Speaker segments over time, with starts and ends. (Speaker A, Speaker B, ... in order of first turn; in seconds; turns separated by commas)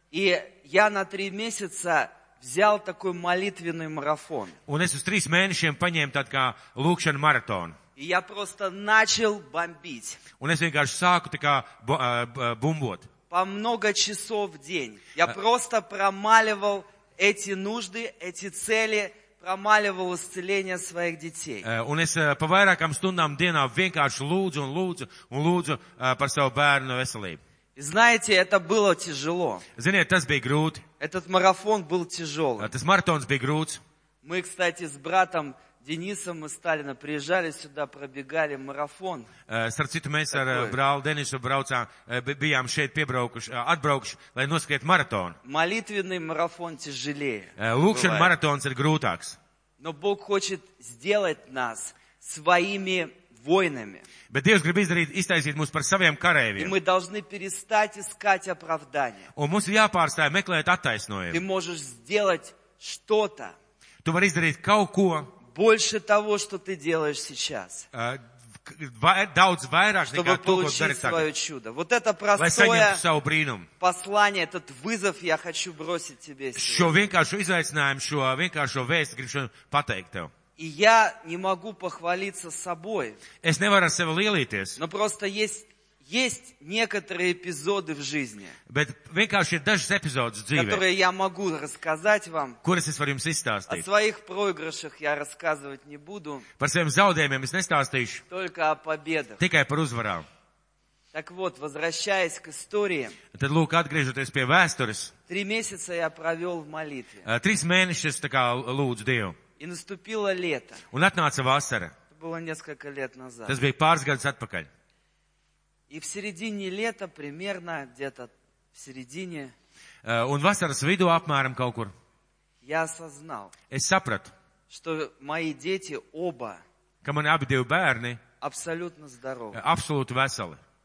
Speaker A: 0.1-4.6, Speaker B: 4.7-7.8, Speaker A: 8.0-10.2, Speaker B: 10.4-13.1, Speaker A: 13.3-21.7, Speaker B: 21.6-27.4, Speaker A: 27.8-29.6, Speaker B: 29.8-30.8, Speaker A: 31.0-32.7, Speaker B: 32.6-33.8, Speaker A: 34.2-39.3, Speaker B: 39.5-45.4, Speaker A: 40.3-40.8, Speaker A: 45.4-48.3, Speaker B: 47.6-49.4, Speaker A: 49.8-54.1, Speaker B: 54.3-56.8, Speaker A: 56.6-59.3, Speaker B: 59.4-61.4, Speaker A: 61.3-63.5, Speaker B: 64.0-65.3, Speaker A: 65.5-67.9, Speaker B: 67.9-71.3, Speaker A: 70.1-73.0, Speaker B: 72.4-73.7, Speaker A: 73.8-77.1, Speaker B: 76.5-80.3, Speaker A: 80.6-83.2, Speaker B: 83.4-84.8, Speaker A: 84.8-88.6, Speaker B: 88.7-90.8, Speaker A: 90.5-92.6, Speaker B: 92.6-93.9, Speaker A: 93.7-96.5, Speaker B: 96.6-98.2, Speaker A: 98.3-99.4, Speaker B: 99.4-100.3, Speaker A: 101.1-103.2, Speaker B: 103.3-105.1, Speaker A: 105.3-107.3, Speaker B: 107.2-109.4, Speaker A: 109.6-110.8, Speaker B: 110.9-111.9, Speaker A: 112.1-113.6, Speaker B: 113.5-114.7, Speaker A: 115.9-119.5, Speaker B: 120.0-121.9, Speaker A: 122.6-123.5, Speaker B: 123.7-124.3, Speaker A: 124.7-126.6, Speaker B: 127.0-128.2, Speaker A: 128.4-129.6, Speaker B: 129.5-130.6